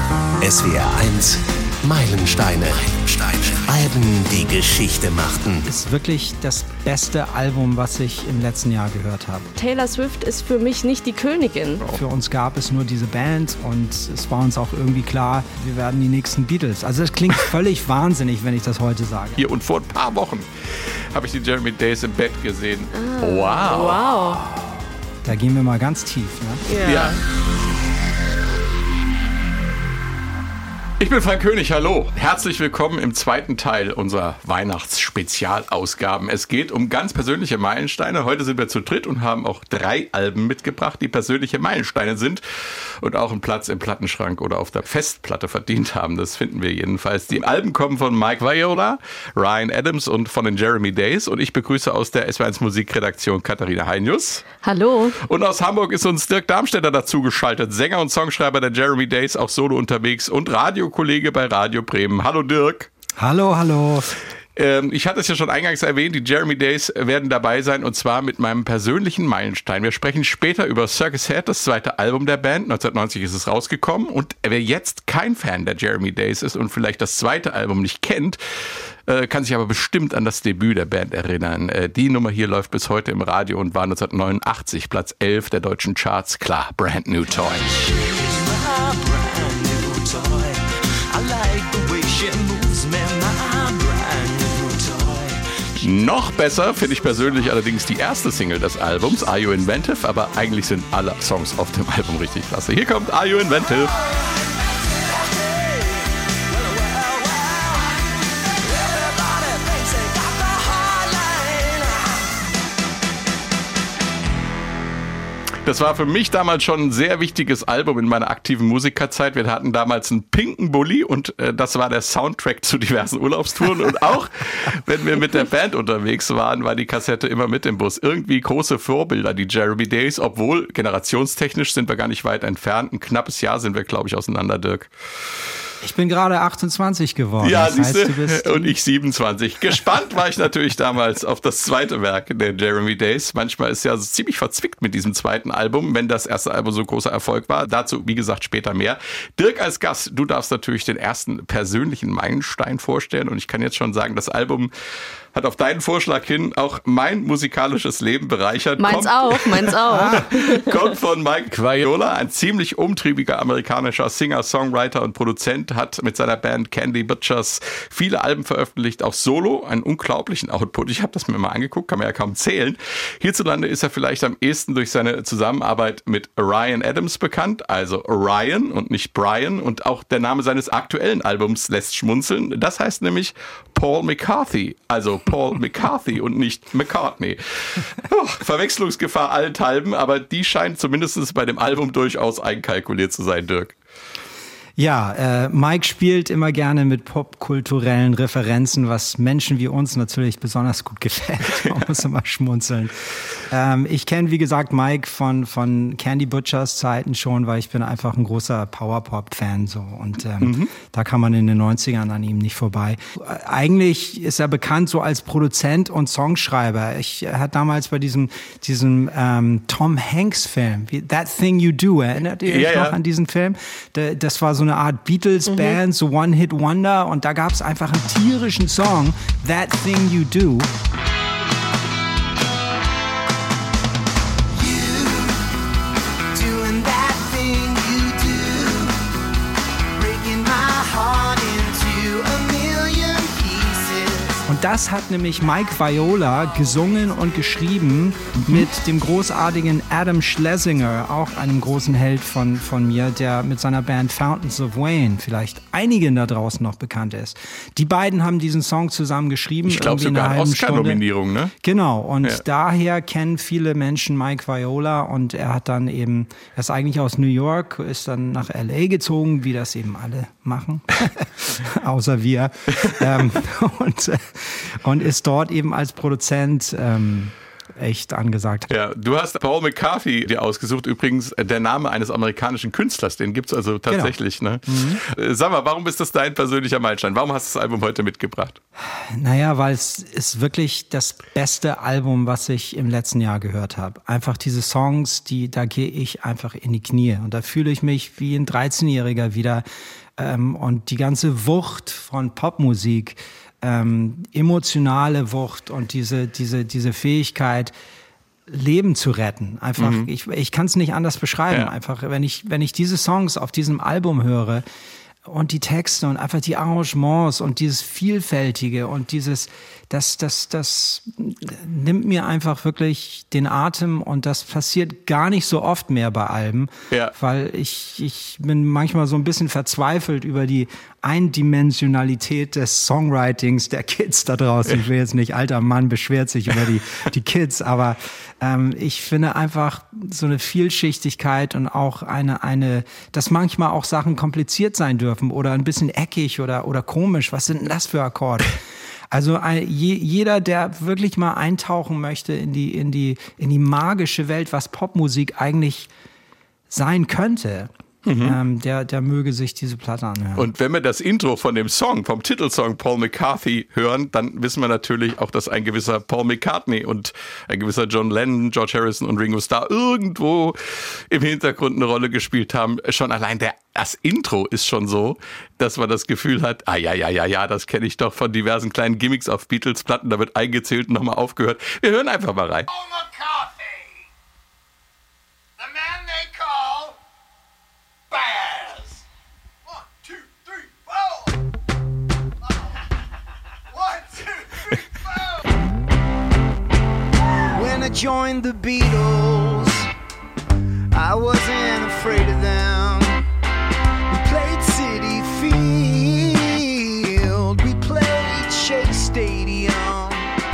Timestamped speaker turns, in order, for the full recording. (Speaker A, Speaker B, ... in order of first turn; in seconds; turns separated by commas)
Speaker A: 0.4-5.6, Speaker B: 5.7-9.5, Speaker C: 9.6-11.8, Speaker B: 11.9-19.5, Speaker D: 19.4-24.1, Speaker C: 22.9-24.4, Speaker B: 25.2-26.6, Speaker C: 26.7-27.2, Speaker D: 26.8-27.2, Speaker D: 31.0-42.4, Speaker D: 43.0-54.5, Speaker C: 54.6-55.2, Speaker D: 55.2-62.9, Speaker B: 63.2-64.1, Speaker D: 64.6-87.6, Speaker E: 87.3-96.1, Speaker D: 95.8-103.9, Speaker E: 103.9-112.3, Speaker D: 115.6-134.9, Speaker B: 135.8-138.7, Speaker D: 137.4-154.7, Speaker D: 155.3-193.7, Speaker C: 158.8-160.7, Speaker B: 159.9-160.3, Speaker B: 194.8-230.7, Speaker D: 210.4-210.7, Speaker D: 222.4-223.0, Speaker C: 225.5-225.8, Speaker E: 234.5-235.5, Speaker E: 236.3-239.0, Speaker E: 239.9-244.4, Speaker B: 244.4-261.0, Speaker D: 259.7-261.5, Speaker B: 261.6-278.7, Speaker D: 278.7-288.6, Speaker B: 283.9-284.1, Speaker B: 284.7-285.0, Speaker B: 288.8-299.6, Speaker B: 300.2-307.7, Speaker B: 308.5-314.6, Speaker D: 309.8-310.1, Speaker B: 315.2-348.6, Speaker B: 349.1-355.9, Speaker B: 356.7-360.5, Speaker D: 358.0-358.4, Speaker D: 360.4-382.7, Speaker E: 388.4-388.8, Speaker E: 397.5-399.9, Speaker E: 400.9-403.2, Speaker E: 404.1-410.3